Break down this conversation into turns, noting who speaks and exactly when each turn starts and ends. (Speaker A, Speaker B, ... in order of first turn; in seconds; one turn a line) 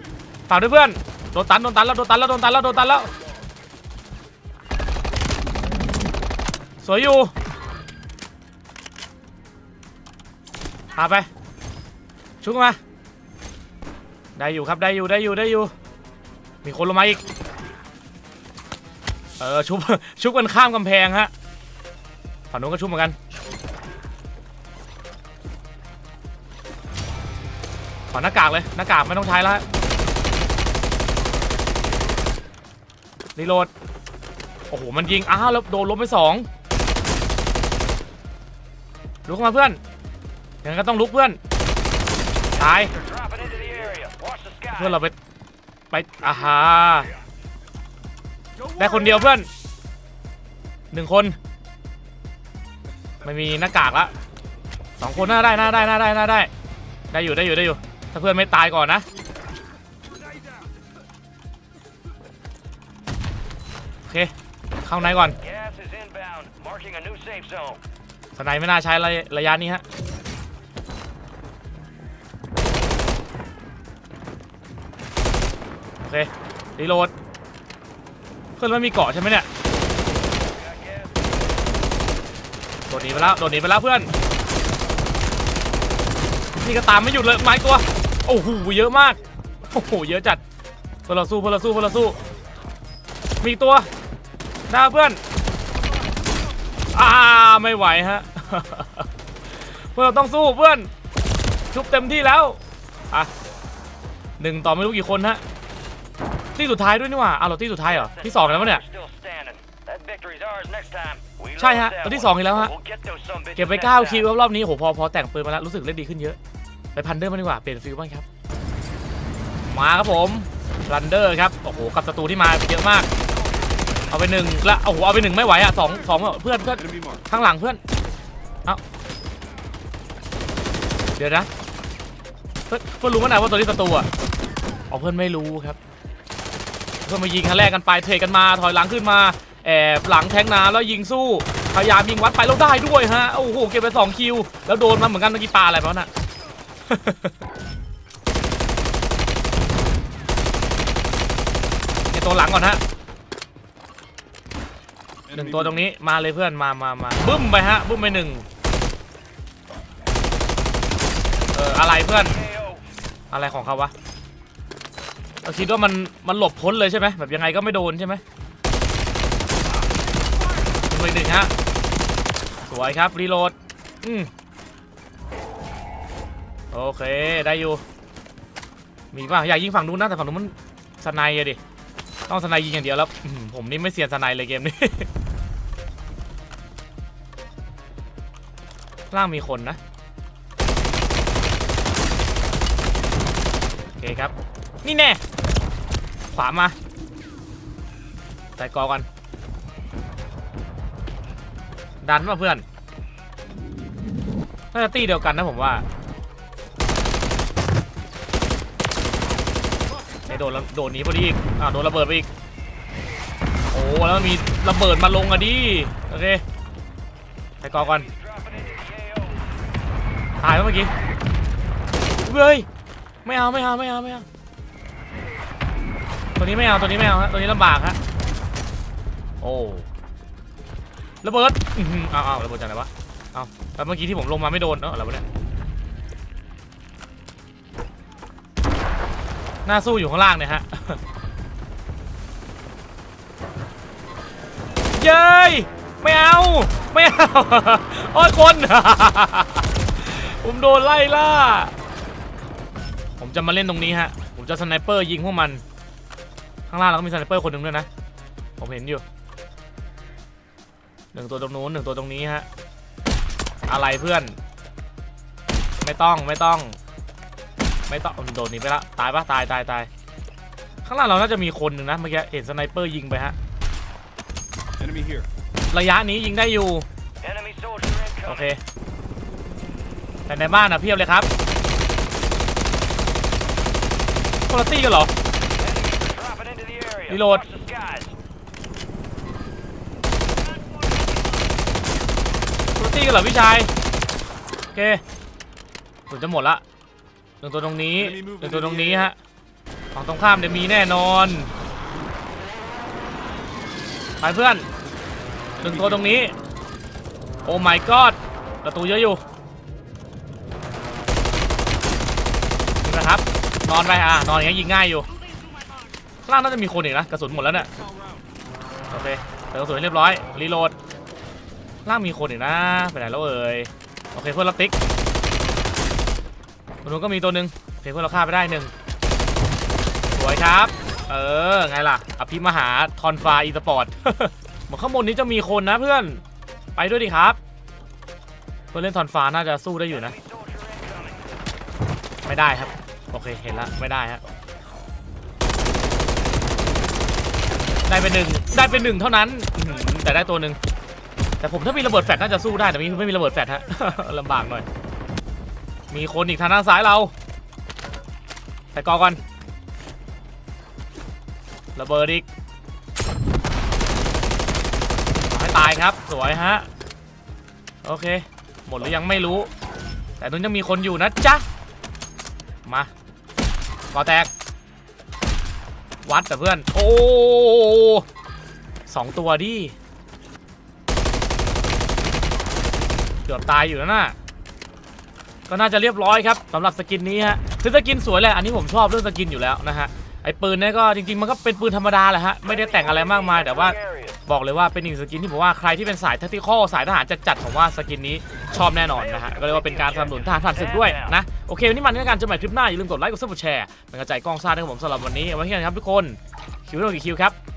Speaker A: 0.5-3.1
Speaker A: 6.8-7.3
Speaker A: 10.9-11.3
Speaker A: 12.4-12.8
Speaker A: 14.4-15.7
Speaker A: 16.6-17.2
Speaker A: 19.4-21.3
Speaker A: 22.5-23.2
Speaker A: 28.1-29.6
Speaker A: 33.4-33.7
Speaker A: 34.7-36.5
Speaker A: 39.3-39.8
Speaker A: 40.6-41.4
Speaker B: 42.6-45.0
Speaker A: 42.6-42.9
Speaker A: 44.7-45.1
Speaker A: 45.9-47.1
Speaker A: 48.8-49.5
Speaker A: 50.9-51.4
Speaker A: 53.2-54.1
Speaker A: 55.0-56.5
Speaker A: 57.1-59.1
Speaker A: 64.1-64.3
Speaker A: 64.8-65.4
Speaker B: 65.4-67.8
Speaker A: 68.3-69.8
Speaker A: 76.0-77.1
Speaker A: 78.6-79.5
Speaker B: 80.4-81.7
Speaker A: 82.9-84.1
Speaker B: 82.9-83.4
Speaker A: 86.6-89.2
Speaker A: 89.7-90.4
Speaker A: 91.1-92.2
Speaker A: 93.4-93.9
Speaker A: 94.7-95.2
Speaker A: 96.9-100.9
Speaker A: 101.7-102.6
Speaker A: 104.4-105.4
Speaker A: 106.6-108.8
Speaker B: 107.8-114.3
Speaker A: 111.6-112.7
Speaker A: 113.6-116.4
Speaker A: 117.0-118.2
Speaker A: 119.7-123.1
Speaker B: 123.3-124.3
Speaker A: 124.1-127.8
Speaker C: 126.8-127.2
Speaker A: 131.2-131.5
Speaker A: 132.7-134.1
Speaker A: 134.9-135.8
Speaker A: 137.1-146.1
Speaker A: 146.9-147.4
Speaker A: 152.1-152.8
Speaker C: 155.3-155.8
Speaker A: 155.3-158.4
Speaker A: 161.5-162.4
Speaker B: 162.2-162.8
Speaker A: 163.3-163.9
Speaker A: 165.4-168.2
Speaker A: 170.9-171.5
Speaker A: 172.7-174.3
Speaker A: 176.7-177.8
Speaker A: 179.1-181.6
Speaker A: 182.3-185.1
Speaker A: 189.1-189.8
Speaker A: 194.0-194.3
Speaker A: 194.8-195.2
Speaker A: 196.3-196.8
Speaker A: 198.6-199.1
Speaker A: 202.0-202.6
Speaker A: 204.7-205.8
Speaker A: 210.3-212.3
Speaker A: 213.7-216.4
Speaker A: 217.6-218.1
Speaker B: 217.7-219.5
Speaker A: 220.4-220.9
Speaker A: 222.2-222.7
Speaker A: 223.2-224.3
Speaker A: 226.4-228.0
Speaker A: 229.4-229.9
Speaker A: 231.2-235.2
Speaker A: 239.7-241.0
Speaker A: 244.9-251.7
Speaker A: 253.2-255.6
Speaker A: 256.7-257.9
Speaker A: 258.6-259.0
Speaker A: 261.1-262.5
Speaker A: 263.7-264.4
Speaker A: 265.8-266.8
Speaker A: 267.9-269.9
Speaker A: 270.9-273.4
Speaker C: 274.8-275.3
Speaker A: 275.7-276.9
Speaker B: 277.2-278.5
Speaker A: 278.3-278.6
Speaker A: 280.3-281.3
Speaker A: 284.5-285.1
Speaker B: 285.6-288.1
Speaker A: 287.1-287.4
Speaker A: 292.8-293.7
Speaker A: 294.8-295.0
Speaker A: 296.1-296.6
Speaker A: 297.4-299.2
Speaker C: 297.9-299.1
Speaker A: 299.9-301.5
Speaker A: 304.2-304.7
Speaker A: 305.6-306.4
Speaker C: 305.6-306.0
Speaker A: 307.4-309.2
Speaker A: 312.8-315.1
Speaker A: 316.3-317.7
Speaker A: 318.9-320.8
Speaker A: 321.9-324.8
Speaker A: 326.8-328.7
Speaker A: 330.1-336.2
Speaker A: 336.8-337.4
Speaker A: 338.7-340.1
Speaker B: 339.9-341.4
Speaker A: 342.2-344.2
Speaker A: 347.9-350.6
Speaker A: 351.4-354.6
Speaker A: 355.9-357.1
Speaker A: 358.7-359.2
Speaker A: 361.8-362.3
Speaker A: 365.3-366.7
Speaker A: 367.8-369.5
Speaker A: 370.2-371.4
Speaker A: 372.7-372.9
Speaker A: 373.9-374.3
Speaker A: 376.0-378.1
Speaker A: 378.9-379.8
Speaker A: 383.3-384.1
Speaker A: 385.5-407.4
Speaker B: 392.4-394.2
Speaker B: 398.9-401.2